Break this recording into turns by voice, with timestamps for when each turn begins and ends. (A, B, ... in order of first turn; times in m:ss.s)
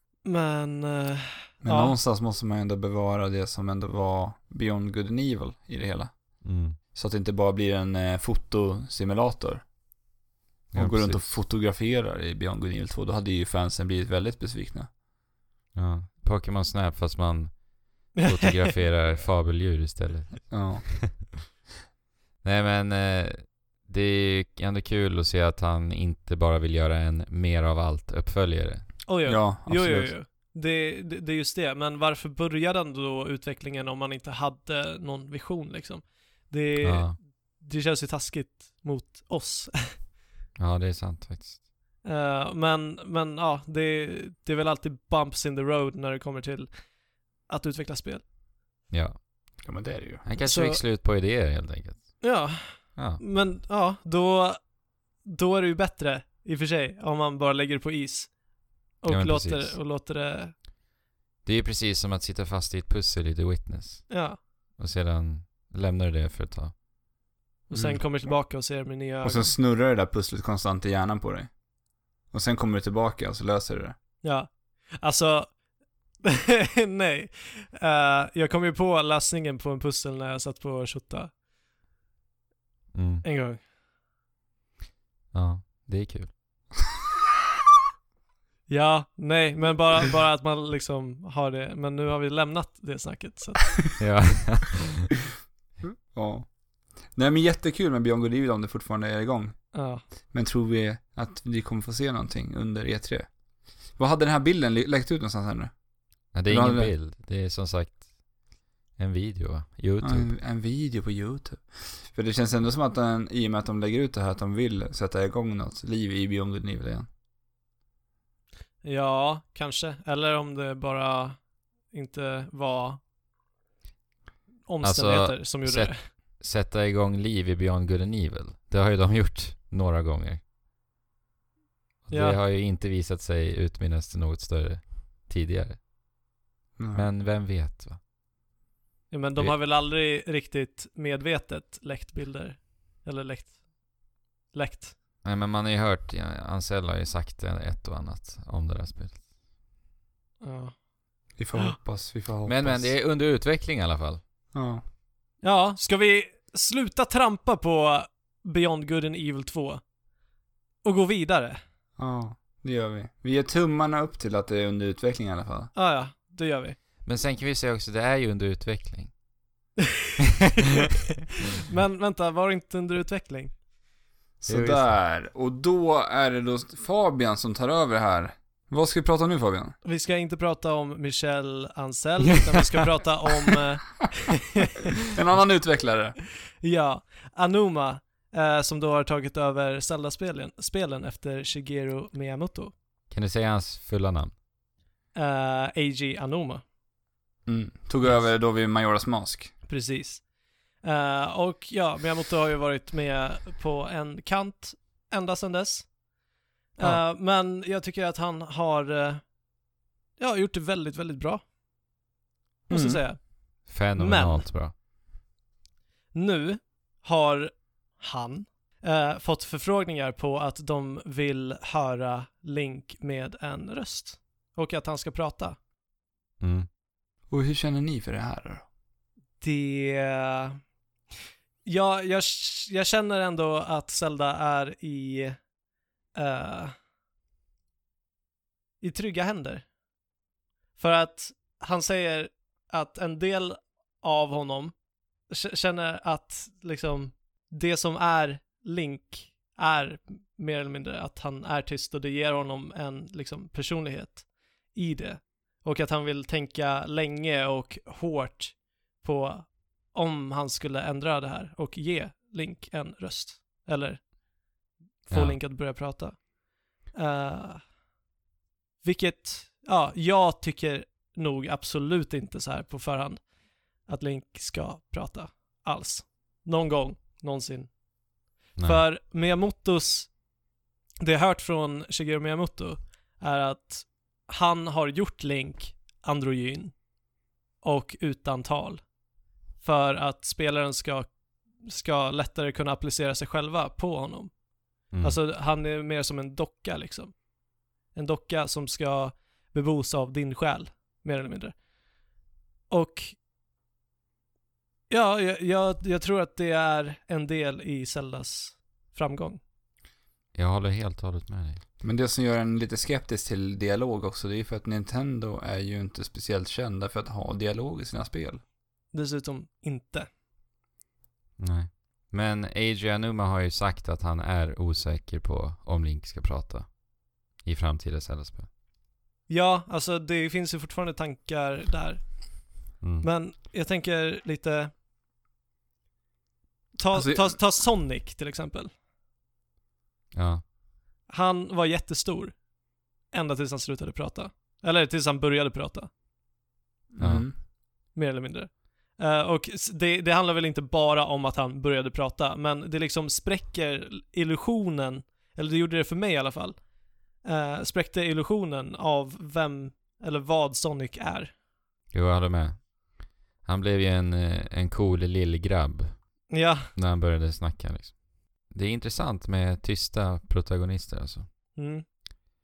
0:00.2-0:02.0 A
0:01.6-0:09.7 B
0:06.4-0:06.8 C
0:10.7-0:11.4 C
0:10.7-0:14.9 B
0:15.8-0:21.2 C
0:18.2-0:18.7 A
0:20.5-0:21.0 B
0:22.4-0:28.9 C
0:29.1-0:39.9 A
0:29.2-0:30.1 B
0:36.8-0:37.2 C
0:40.6-0:41.6 C
0:42.0-0:46.7 A
0:47.5-0:48.2 A
0:48.9-0:49.2 C
0:49.6-0:50.2 B
0:50.2-0:52.2 C
0:50.4-0:50.8 A
0:52.2-0:54.6 A
0:53.0-0:53.2 C
0:55.2-0:58.4 A
0:59.0-1:00.5 A
0:59.1-0:59.8 C
1:01.4-1:04.2 C
1:04.1-1:04.4 A
1:04.8-1:06.7 C
1:07.7-1:09.5 A
1:07.7-1:08.0 B
1:09.2-1:11.5 B
1:12.3-1:14.0 B
1:14.2-1:15.6 A
1:16.2-1:21.3 A
1:22.9-1:23.2 C
1:23.2-1:23.6 A
1:25.3-1:26.3 C
1:28.7-1:34.0 A
1:34.0-1:35.1 C
1:35.8-1:36.5 B
1:37.1-1:39.6 B
1:39.7-1:40.0 A
1:40.3-1:43.3 B
1:44.0-1:45.7 B
1:46.3-1:48.1 C
1:46.5-1:46.9 B
1:49.0-1:50.3 C
1:50.0-1:57.1 B
1:58.8-2:01.4 A
2:01.9-2:03.0 A
2:04.7-2:06.0 A
2:04.8-2:10.4 C
2:12.0-2:15.8 C
2:12.1-2:12.4 A
2:16.8-2:17.1 B
2:16.9-2:18.0 C
2:19.1-2:23.6 A
2:24.5-2:25.0 A
2:25.2-2:29.2 C
2:30.4-2:30.7 A
2:31.4-2:32.9 B
2:32.5-2:34.2 C
2:34.5-2:34.8 B
2:35.4-2:39.8 A
2:40.8-2:41.6 A
2:42.0-2:45.7 B
2:45.7-2:46.8 A
2:47.0-2:49.1 C
2:51.6-2:53.6 A
2:54.4-2:59.8 B
2:54.5-2:55.0 C
2:59.8-3:04.9 A
3:05.1-3:06.2 B
3:06.6-3:12.7 A
3:13.1-3:14.3 C
3:15.2-3:16.6 A
3:17.5-3:19.5 B
3:19.7-3:20.2 A
3:20.8-3:25.9 A
3:26.8-3:29.2 A
3:30.2-3:31.4 A
3:32.7-3:34.5 A
3:32.7-3:33.0 B
3:33.6-3:34.7 C
3:36.1-3:45.6 A
3:46.4-3:46.7 C
3:47.3-3:48.6 B
3:49.4-3:50.6 A
3:51.6-3:55.4 A
3:56.2-3:56.7 A
3:58.8-3:59.7 A
4:00.8-4:04.7 A
4:05.3-4:24.0 A
4:25.1-4:26.3 A
4:25.1-4:25.4 C
4:26.9-4:27.6 A
4:28.8-4:33.2 A
4:33.9-4:37.7 A
4:38.6-4:38.8 C
4:38.6-4:40.1 A
4:41.0-4:46.8 A
4:47.6-4:48.8 A
4:49.6-4:51.1 A
4:51.6-4:54.4 A
4:54.9-4:55.2 C
4:55.0-4:57.2 A
4:57.9-5:01.6 A
5:02.7-5:03.2 A
5:04.9-5:09.4 A
5:10.3-5:11.6 C
5:11.8-5:18.4 B
5:18.9-5:20.1 A
5:21.4-5:26.7 C
5:27.4-5:28.5 C
5:29.3-5:32.1 A
5:32.8-5:33.1 C
5:33.0-5:34.7 A
5:36.8-5:38.7 A
5:36.9-5:37.4 B
5:40.1-5:40.4 C
5:41.1-5:42.4 A
5:43.1-5:45.9 A
5:46.9-5:47.3 B
5:47.0-5:47.2 C
5:48.0-5:56.6 A
5:57.2-6:01.3 A
6:01.9-6:02.7 C
6:03.4-6:06.2 C
6:06.3-6:06.7 A
6:06.8-6:08.0 C
6:08.5-6:11.3 C
6:11.6-6:11.8 A